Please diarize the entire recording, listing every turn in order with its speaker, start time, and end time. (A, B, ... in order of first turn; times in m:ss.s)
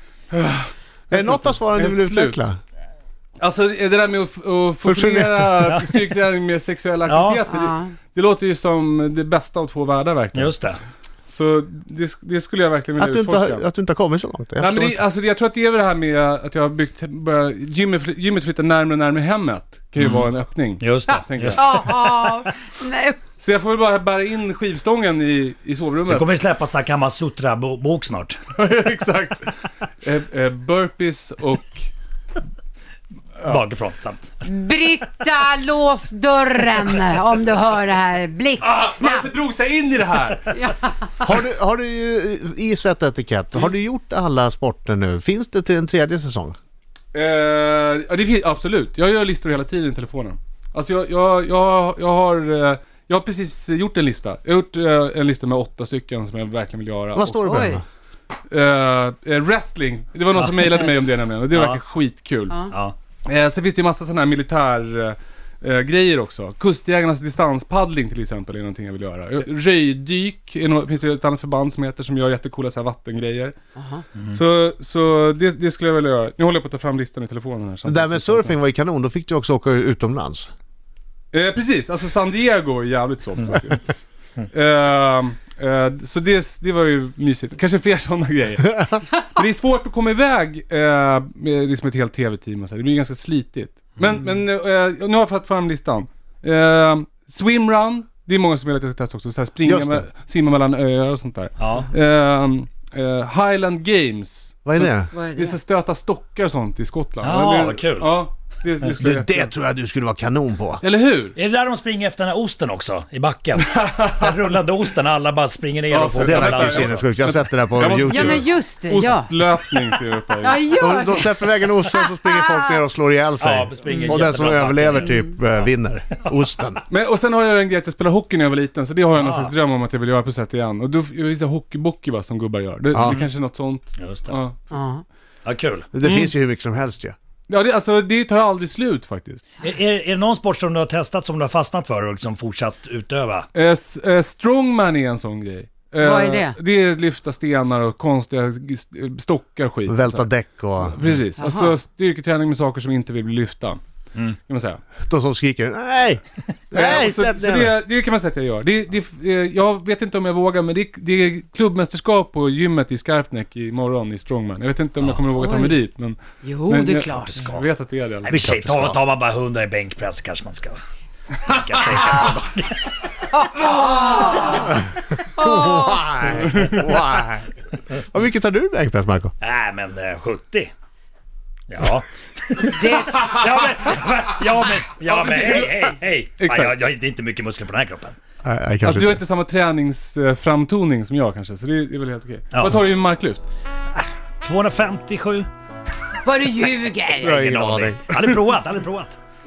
0:00.3-0:02.5 A
0:01.1-0:02.6 B
0:03.4-0:10.6 A
0:04.8-0:05.5 B
0:05.6-0:06.0 C
0:07.1-0:07.4 C
0:07.5-0:08.0 D
0:10.3-0:10.8 C
0:11.3-0:13.7 A
0:13.0-0:15.0 B
0:14.6-0:21.8 A
0:20.8-0:21.9 C
0:21.5-0:23.2 D
0:23.4-0:26.4 A
0:26.1-0:28.4 C
0:28.6-0:31.9 A
0:33.4-0:34.4 C
0:34.4-0:39.3 D
0:38.6-0:40.6 A
0:40.5-0:41.1 D
0:41.2-0:46.6 B
0:47.1-0:57.7 A
0:57.2-0:57.8 B
0:57.4-0:57.8 D
0:58.5-1:02.7 A
1:00.4-1:00.9 C
1:01.5-1:01.8 C
1:03.2-1:13.5 A
1:13.8-1:14.0 D
1:14.3-1:18.5 A
1:17.9-1:20.5 B
1:21.3-1:23.9 A
1:24.5-1:49.5 A
1:39.6-1:40.1 B
1:41.6-1:41.9 C
1:44.7-1:45.1 B
1:45.1-1:45.6 D
1:47.2-1:48.2 C
1:49.0-1:50.8 B
1:50.8-1:51.4 A
1:51.4-1:57.0 C
1:53.6-1:54.6 A
1:55.9-2:00.8 A
1:56.2-1:58.4 B
1:58.0-1:59.3 D
2:00.4-2:02.8 D
2:00.8-2:06.8 B
2:03.4-2:05.3 C
2:06.9-2:14.6 A
2:09.2-2:09.5 C
2:12.9-2:13.2 B
2:14.0-2:14.4 C
2:14.7-2:15.0 D
2:15.4-2:15.9 C
2:15.9-2:17.2 B
2:16.0-2:16.3 A
2:17.5-2:19.4 A
2:19.6-2:23.5 C
2:23.5-2:30.3 A
2:26.0-2:26.6 D
2:29.9-2:31.0 B
2:30.8-2:33.8 A
2:31.4-2:31.8 D
2:34.5-2:34.8 A
2:35.1-2:37.7 B
2:36.7-2:48.4 A
2:45.3-2:45.8 D
2:46.4-2:47.6 D
2:47.4-2:47.6 C
2:48.2-2:50.8 C
2:48.3-2:49.0 B
2:51.4-2:52.8 C
2:53.3-2:54.6 D
2:55.4-2:56.1 D
2:55.4-2:59.3 B
2:59.4-3:00.7 C
3:01.7-3:08.2 C
3:02.7-3:03.2 D
3:05.0-3:06.8 A
3:08.4-3:09.2 B
3:08.8-3:13.5 A
3:12.5-3:12.8 C
3:13.9-3:15.5 C
3:16.2-3:17.4 D
3:17.2-3:18.0 B
3:17.2-3:19.2 C